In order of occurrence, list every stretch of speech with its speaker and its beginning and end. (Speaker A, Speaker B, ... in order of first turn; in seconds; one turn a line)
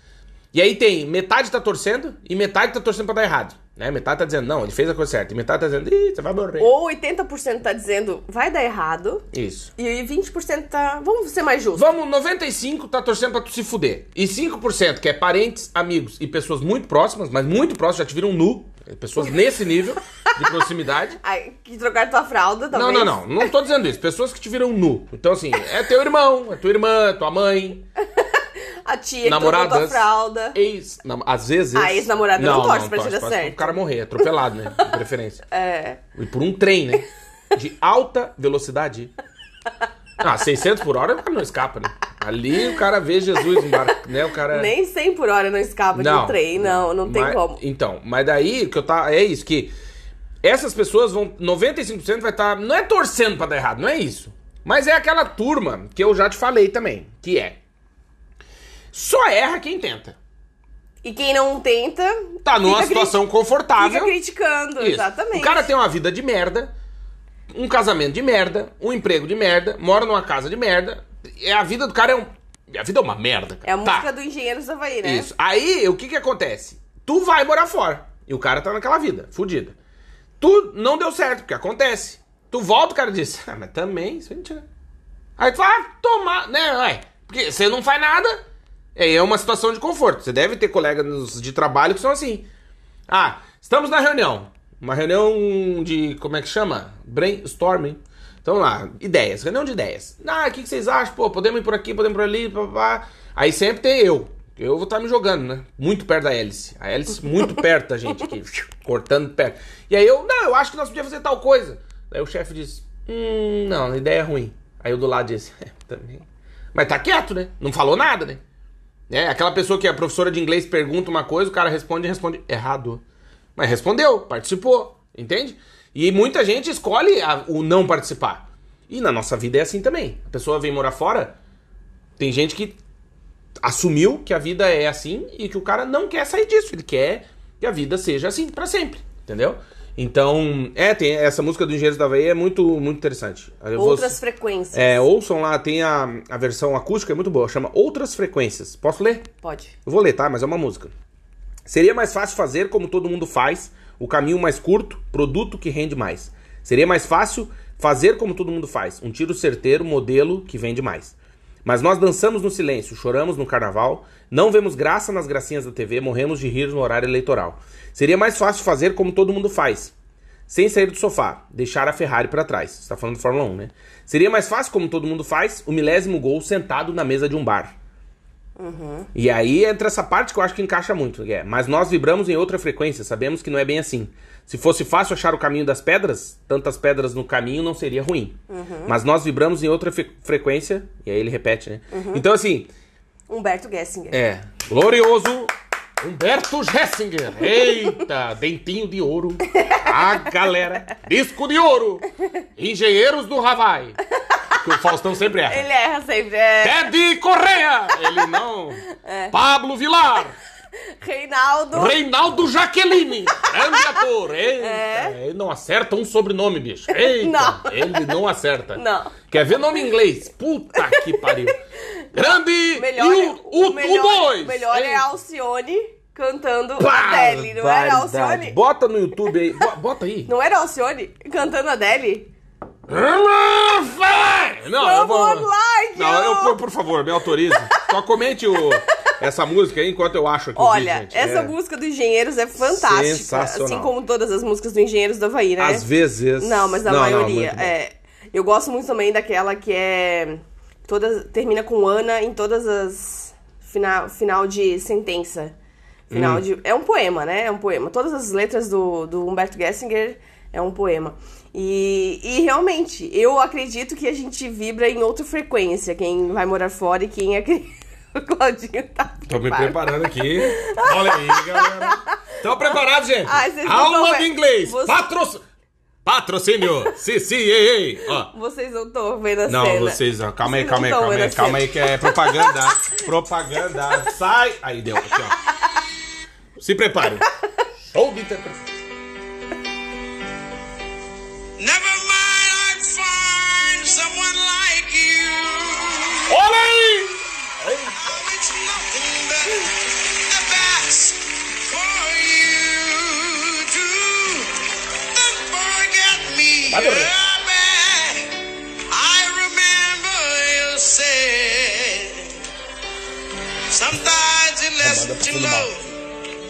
Speaker A: 0.5-6.7
Speaker B: 6.6-9.3
Speaker A: 9.3-9.7
Speaker B: 9.8-11.9
Speaker A: 11.8-21.2
Speaker B: 21.2-23.2
Speaker A: 22.7-27.9
Speaker B: 28.1-30.6
Speaker A: 29.2-35.4
Speaker B: 31.7-34.2
Speaker B: 35.5-36.0
Speaker A: 36.1-39.1
Speaker A: 40.2-44.7
Speaker B: 44.5-47.6
Speaker A: 45.9-49.7
Speaker A: 50.4-57.6
Speaker A: 58.9-60.2
Speaker B: 61.0-63.2
Speaker A: 62.4-64.2
Speaker B: 63.8-65.7
Speaker A: 64.8-66.7
Speaker A: 67.5-74.1
Speaker B: 73.6-75.3
Speaker A: 75.0-79.8
Speaker A: 80.4-84.7
Speaker A: 85.4-88.4
Speaker A: 89.0-92.5
Speaker A: 93.1-118.4
Speaker A: 119.1-123.0
Speaker A: 123.6-131.4
Speaker A: 132.2-132.8
Speaker A: 133.6-144.2
Speaker B: 143.8-145.1
Speaker A: 144.7-149.3
Speaker B: 149.4-149.8
Speaker A: 149.8-150.9
Speaker A: 151.7-169.9
Speaker A: 170.5-177.8
Speaker B: 178.6-179.1
Speaker A: 179.1-192.7
Speaker B: 188.5-189.0
Speaker B: 191.9-192.2
Speaker B: 193.3-194.2
Speaker A: 194.1-202.1
Speaker B: 199.5-200.3
Speaker A: 202.6-204.0
Speaker B: 204.2-204.6
Speaker A: 204.6-205.7
Speaker B: 205.5-206.9
Speaker A: 206.6-210.4
Speaker B: 208.9-209.3
Speaker B: 210.9-212.0
Speaker A: 211.7-221.6
Speaker B: 213.4-214.0
Speaker B: 214.6-215.2
Speaker B: 216.9-218.2
Speaker B: 218.7-219.2
Speaker B: 220.8-228.6
Speaker A: 222.1-225.1
Speaker A: 226.8-230.3
Speaker B: 230.3-232.3
Speaker A: 232.9-241.6
Speaker B: 234.8-236.6
Speaker B: 237.5-237.8
Speaker B: 240.6-245.9
Speaker A: 242.6-243.9
Speaker A: 245.6-247.7
Speaker B: 246.4-255.5
Speaker A: 256.1-256.4
Speaker B: 256.1-275.0
Speaker A: 269.3-275.4
Speaker A: 276.1-278.3
Speaker B: 278.1-283.0
Speaker A: 279.5-285.4
Speaker A: 286.6-287.3
Speaker A: 287.9-288.6
Speaker C: 291.6-296.4
Speaker A: 296.3-298.0
Speaker C: 297.9-304.5
Speaker C: 305.0-312.4
Speaker A: 306.7-307.1
Speaker C: 313.7-315.9
Speaker A: 314.8-315.7